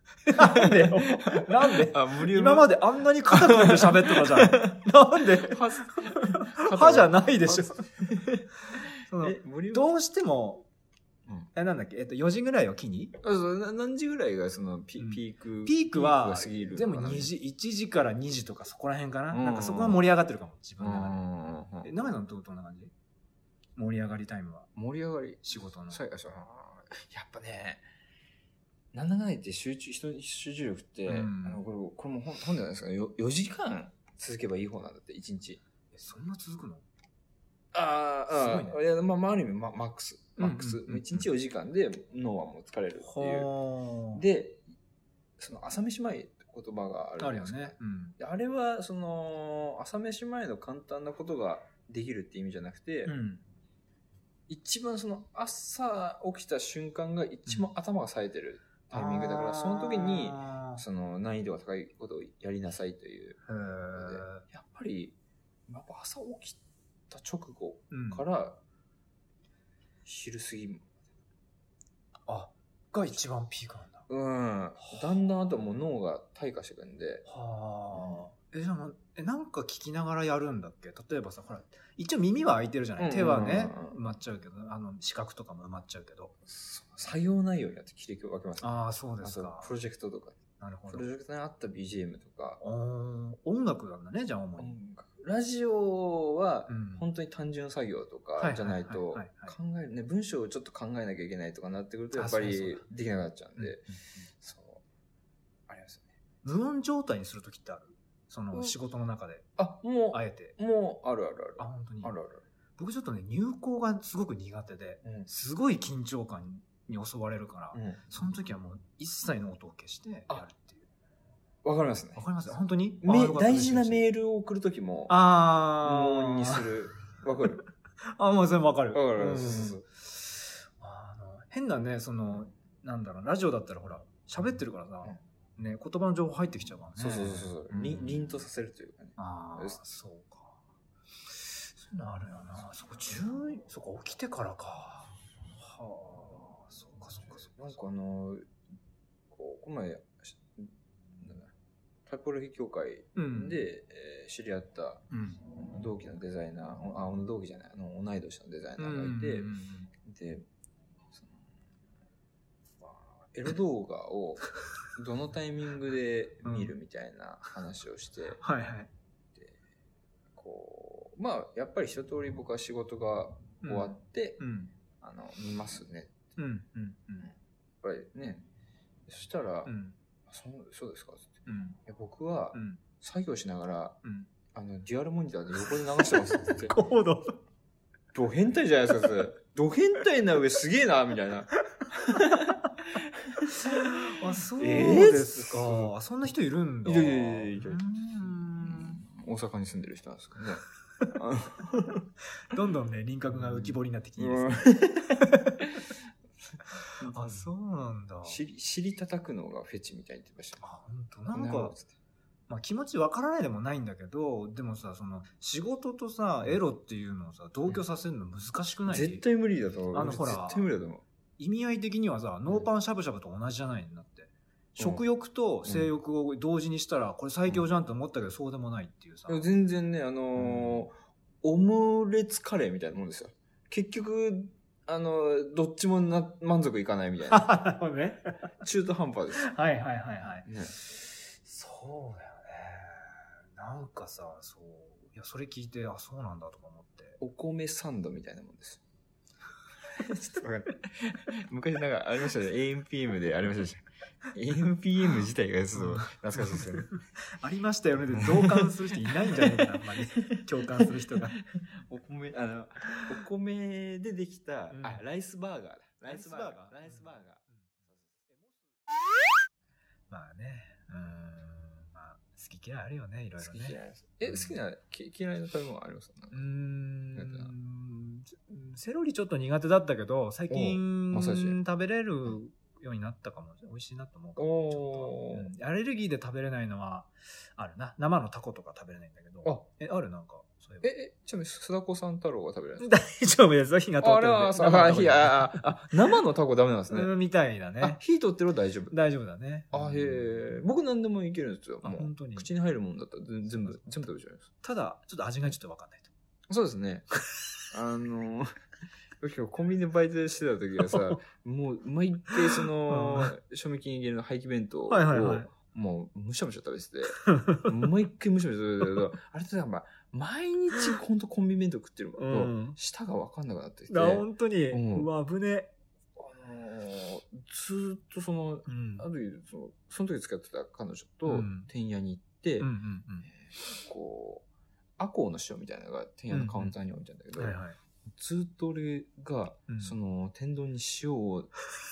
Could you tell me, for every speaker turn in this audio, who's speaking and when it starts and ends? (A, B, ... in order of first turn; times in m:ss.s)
0:00.2-0:09.9 A
0:00.3-0:08.0 B
0:08.7-0:10.6 B
0:11.5-0:13.1 B
0:13.2-0:17.3 A
0:15.0-0:21.2 B
0:19.3-0:20.0 A
0:20.8-0:21.9 A
0:21.8-0:22.9 B
0:23.8-0:24.7 B
0:24.7-0:27.8 A
0:25.4-0:26.0 B
0:28.9-0:35.6 A
0:31.0-0:31.6 B
0:35.9-0:36.8 B
0:37.7-0:43.5 A
0:38.3-0:38.8 B
0:40.4-0:41.2 B
0:43.0-0:44.2 B
0:44.1-0:44.6 A
0:45.4-0:53.1 A
0:47.2-0:48.2 B
0:53.0-0:53.4 B
0:54.5-1:03.4 A
0:58.9-1:00.8 B
1:03.5-1:04.4 B
1:03.9-1:05.2 A
1:05.7-1:06.6 A
1:07.1-1:08.6 A
1:07.9-1:08.2 B
1:10.0-1:11.0 A
1:12.3-1:14.0 B
1:14.1-1:17.2 A
1:17.2-1:26.3 B
1:17.9-1:18.3 A
1:23.0-1:24.0 A
1:26.4-1:32.6 A
1:28.6-1:29.7 B
1:30.6-1:31.1 B
1:32.6-1:34.8 B
1:34.6-1:44.8 A
1:36.7-1:37.1 B
1:38.4-1:39.5 B
1:42.1-1:42.8 B
1:43.6-1:44.2 B
1:45.7-1:46.1 A
1:46.4-1:49.5 B
1:49.6-1:52.4 A
1:50.1-1:50.5 B
1:51.6-1:52.1 B
1:52.8-2:00.9 B
1:57.7-1:58.0 A
2:01.6-2:02.2 A
2:02.1-2:04.0 B
2:03.0-2:05.2 A
2:05.1-2:06.7 B
2:05.8-2:07.6 A
2:08.1-2:18.2 B
2:08.9-2:09.8 A
2:17.0-2:19.8 A
2:19.2-2:20.6 B
2:21.4-2:27.7 B
2:27.4-2:28.4 A
2:29.3-2:31.5 A
2:32.1-2:35.0 A
2:33.2-2:33.6 B
2:35.1-2:35.4 B
2:35.6-2:39.5 A
2:38.8-2:39.9 B
2:40.0-2:40.4 A
2:41.1-2:41.4 A
2:42.8-2:48.4 A
2:46.4-2:46.7 B
2:48.4-2:48.9 B
2:50.3-2:54.4 A
2:53.6-2:54.7 B
2:55.0-2:56.1 A
2:56.4-2:57.3 B
2:57.8-2:58.4 A
2:59.1-2:59.7 A
2:59.6-3:00.0 B
3:00.3-3:04.0 A
3:01.4-3:01.8 B
3:02.5-3:02.8 B
3:04.0-3:04.3 B
3:04.5-3:06.8 A
3:06.2-3:07.4 B
3:08.1-3:15.9 A
3:13.5-3:19.0 B
3:16.8-3:17.8 A
3:18.6-3:22.0 A
3:22.5-3:25.7 B
3:23.3-3:25.3 A
3:27.0-3:27.5 A
3:27.0-3:28.4 B
3:28.2-3:30.6 A
3:30.6-3:31.8 B
3:31.3-3:31.9 A
3:32.5-3:39.2 B
3:38.9-3:41.0 A
3:39.9-3:40.7 B
3:41.4-3:49.5 B
3:44.8-3:45.0 A
3:49.3-3:57.5 A
3:50.4-3:50.8 B
3:57.3-3:58.3 B
3:58.6-3:59.5 A
3:59.4-4:07.2 B
4:00.4-4:00.7 A
4:07.2-4:08.8 A
4:09.9-4:16.9 A
4:15.7-4:21.4 B
4:18.2-4:18.7 A
4:19.3-4:27.4 A
4:24.7-4:25.0 B
4:26.0-4:27.7 B
4:28.3-4:28.6 B
4:30.1-4:34.6 B
4:33.4-4:36.5 A
4:36.3-4:50.9 B
4:37.1-4:37.5 A
4:40.5-4:41.6 A
4:44.4-4:45.5 A
4:50.8-4:52.9 A
4:52.8-4:55.9 B
4:54.0-4:57.1 A
4:56.9-4:58.0 B
4:57.8-4:58.9 A
4:58.9-5:00.2 B
4:59.7-5:04.5 A
5:01.8-5:02.5 B
5:03.5-5:04.0 B
5:04.6-5:06.1 B
5:06.5-5:07.1 A
5:07.7-5:08.5 A
5:09.2-5:25.1 A
5:12.9-5:13.3 B
5:14.9-5:15.5 B
5:17.2-5:17.7 B
5:22.2-5:22.8 B
5:23.9-5:25.7 B
5:26.2-5:32.7 A
5:28.7-5:29.0 B
5:31.2-5:31.7 B
5:32.6-5:33.3 B
5:33.3-5:34.4 A
5:35.0-5:37.6 A
5:36.3-5:36.7 B
5:37.4-5:37.8 B
5:38.1-5:41.5 A
5:39.7-5:39.9 B